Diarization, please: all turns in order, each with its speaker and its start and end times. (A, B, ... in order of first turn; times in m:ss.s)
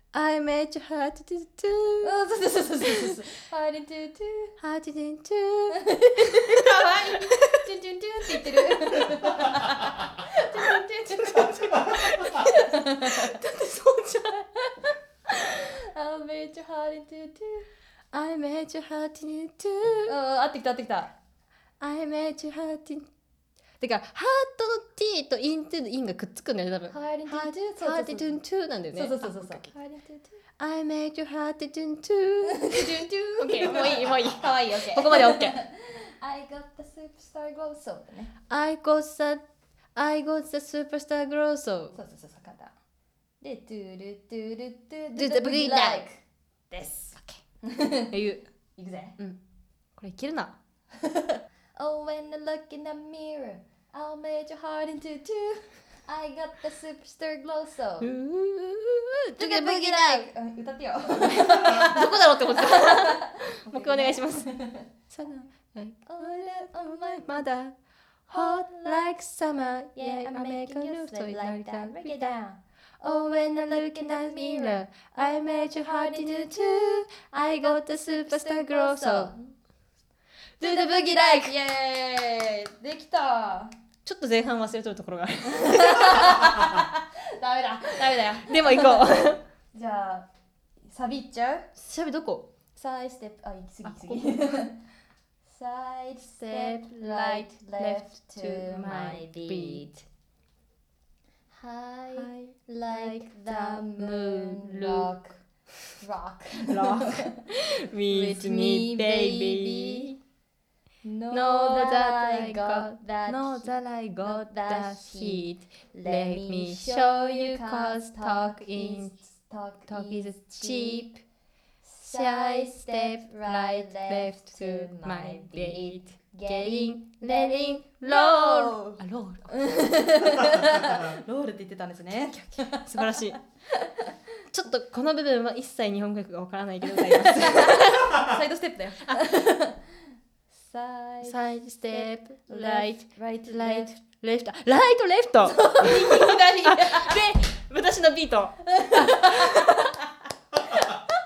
0:00.1-0:02.2 A
0:02.0-0:04.6 B
0:02.8-0:03.2 A
0:04.6-0:07.6 A
0:05.7-0:13.4 B
0:11.4-0:14.4 A
0:14.4-0:17.7 B
0:18.1-0:20.2 A
0:20.1-0:21.2 B
0:21.8-0:23.1 A
0:23.8-0:29.7 A
0:26.9-0:28.4 B
0:28.9-0:30.4 B
0:30.6-0:35.6 A
0:32.5-0:38.3 B
0:38.5-0:39.4 A
0:40.0-0:42.0 A
0:41.9-0:42.7 B
0:43.4-0:46.2 B
0:45.2-0:46.1 A
0:46.7-0:48.2 B
0:48.1-0:48.4 A
0:48.8-0:49.2 B
0:50.0-0:50.6 A
0:51.0-0:58.1 B
0:58.0-1:00.3 A
0:59.4-1:04.9 B
1:01.3-1:04.5 A
1:05.1-1:07.8 A
1:06.1-1:07.5 B
1:08.3-1:09.2 B
1:08.3-1:12.3 A
1:10.0-1:12.6 B
1:13.0-1:19.3 A
1:13.6-1:17.0 B
1:18.2-1:19.5 B
1:20.6-1:21.6 A
1:20.6-1:23.7 B
1:24.0-1:26.6 A
1:25.6-1:29.2 B
1:28.0-1:29.4 A
1:29.7-1:30.3 B
1:30.9-1:31.7 B
1:31.8-1:32.5 A
1:32.8-1:34.8 B
1:33.9-1:34.4 A
1:35.5-1:40.0 B
1:36.2-1:39.8 A
1:41.5-1:45.4 B
1:42.1-1:45.1 A
1:46.0-1:47.4 B
1:46.7-1:50.1 A
1:48.1-1:50.2 B
1:51.0-2:01.1 B
1:51.3-1:59.2 A
1:59.9-2:01.2 A
2:01.8-2:09.0 B
2:02.0-2:10.1 A
2:09.5-2:14.1 B
2:12.8-2:13.4 A
2:14.5-2:18.2 A
2:17.0-2:19.9 B
2:20.5-2:23.9 B
2:21.2-2:29.8 A
2:25.4-2:27.3 B
2:28.8-2:30.1 B